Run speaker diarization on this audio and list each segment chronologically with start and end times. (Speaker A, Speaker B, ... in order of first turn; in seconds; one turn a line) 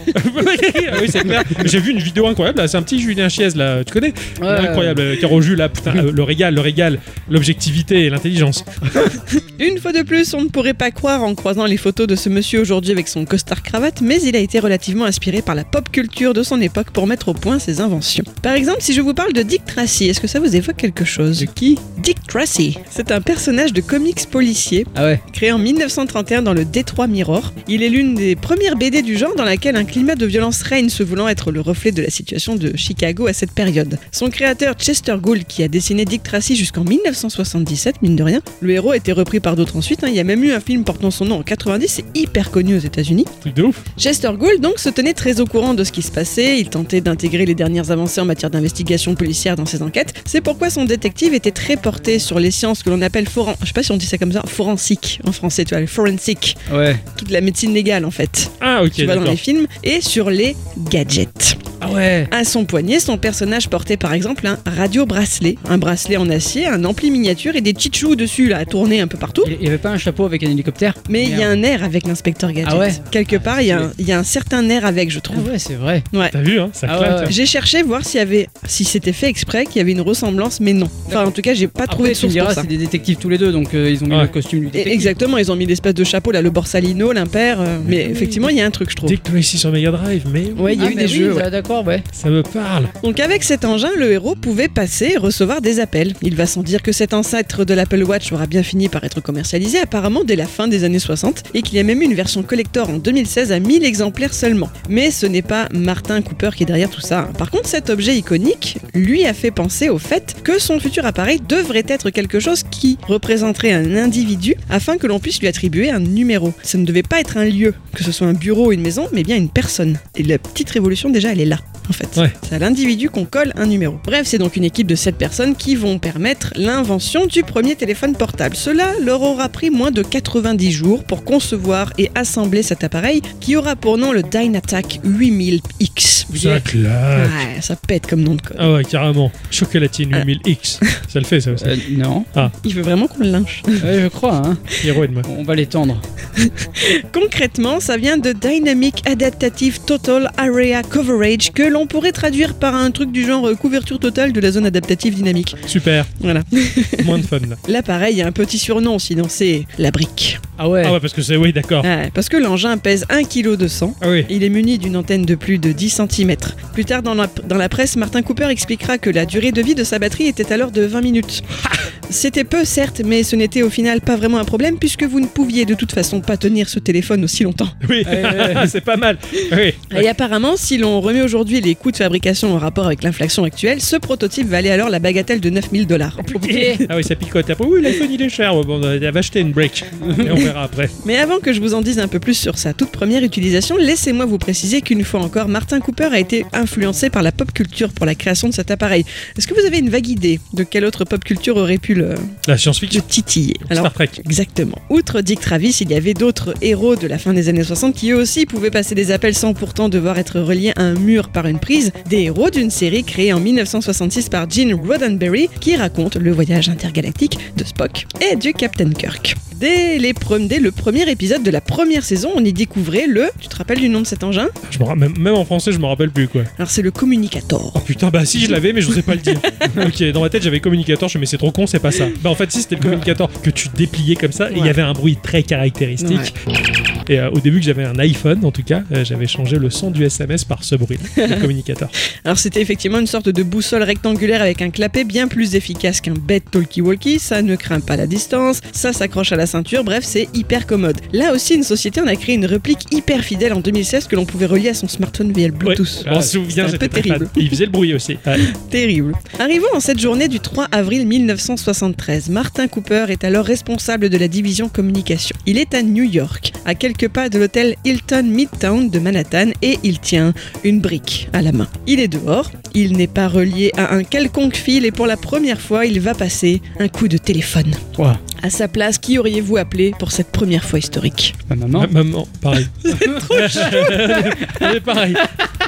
Speaker A: 0.1-9.1
Speaker B: 4.4-5.2
Speaker C: 9.3-43.3
Speaker B: 21.4-21.8
Speaker B: 24.9-25.2
Speaker A: 43.4-43.9
Speaker C: 44.0-61.6
Speaker B: 56.7-57.0
Speaker A: 58.6-59.4
Speaker B: 61.8-62.3
Speaker C: 62.3-69.5
Speaker B: 69.4-71.6
Speaker C: 71.1-75.5
Speaker B: 72.7-73.9
Speaker B: 75.3-76.1
Speaker A: 76.3-77.4
Speaker B: 76.9-77.3
Speaker C: 77.2-82.7
Speaker B: 81.1-81.3
Speaker B: 81.8-85.2
Speaker C: 84.7-89.2
Speaker A: 87.8-88.5
Speaker A: 89.0-91.1
Speaker C: 90.6-91.5
Speaker B: 90.8-92.1
Speaker A: 92.1-92.9
Speaker C: 93.0-136.6
Speaker A: 136.3-137.5
Speaker C: 137.2-138.7
Speaker A: 138.6-141.8
Speaker B: 141.6-142.3
Speaker C: 142.6-143.9
Speaker B: 143.8-144.7
Speaker A: 144.8-145.3
Speaker B: 145.2-146.1
Speaker C: 146.4-155.6
Speaker A: 155.7-156.1
Speaker C: 156.2-160.4
Speaker A: 157.0-157.6
Speaker B: 160.6-161.0
Speaker A: 160.8-161.9
Speaker C: 161.8-171.4
Speaker A: 164.0-164.3
Speaker C: 172.1-177.8
Speaker A: 177.8-180.1
Speaker B: 178.1-178.7
Speaker C: 179.9-186.8
Speaker A: 186.2-191.0
Speaker B: 186.4-186.8
Speaker B: 190.0-190.3
Speaker C: 191.0-202.3
Speaker A: 202.4-203.1
Speaker C: 202.9-224.6
Speaker A: 203.7-204.2
Speaker A: 224.7-226.5
Speaker C: 226.6-227.8
Speaker A: 227.8-236.3
Speaker C: 228.9-229.8
Speaker C: 236.0-236.3
Speaker A: 237.1-241.9
Speaker C: 241.2-241.5
Speaker C: 242.2-257.5
Speaker A: 255.6-258.5
Speaker C: 258.4-277.8
Speaker B: 278.0-278.2
Speaker C: 278.4-281.4
Speaker B: 281.5-281.9
Speaker A: 281.8-285.3
Speaker C: 282.8-284.5
Speaker B: 283.0-283.9